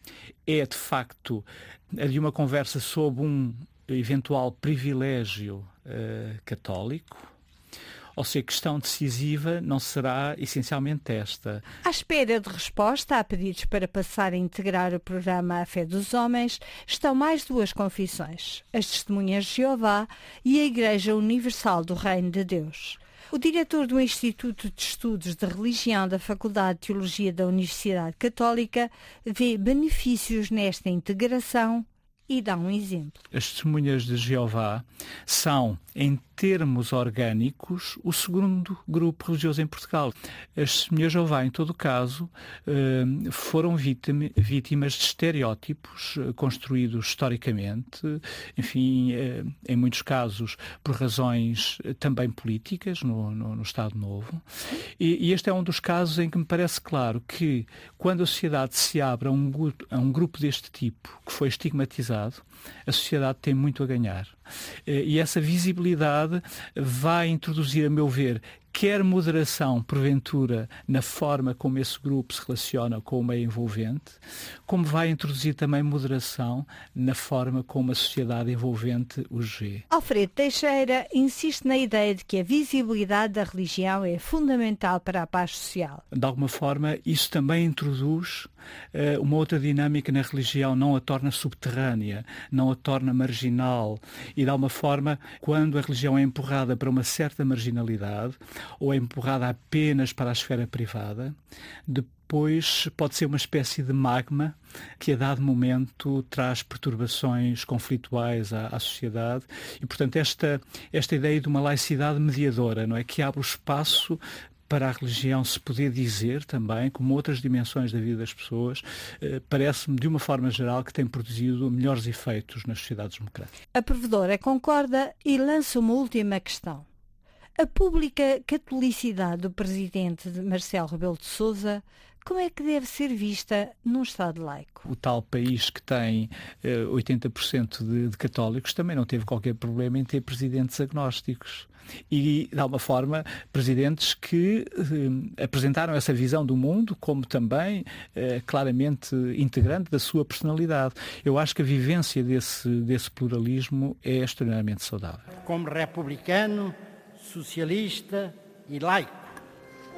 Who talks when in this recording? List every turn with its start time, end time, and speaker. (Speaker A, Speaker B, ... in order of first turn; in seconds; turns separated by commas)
Speaker A: 0.5-7.3, Speaker A: 8.2-11.7, Speaker B: 11.8-33.2, Speaker A: 33.3-54.4, Speaker A: 55.0-64.3, Speaker A: 64.9-79.8, Speaker B: 79.9-86.0, Speaker A: 86.1-101.3, Speaker A: 101.9-123.5, Speaker B: 123.7-126.8, Speaker B: 127.6-134.8, Speaker A: 134.8-155.3, Speaker C: 155.4-159.1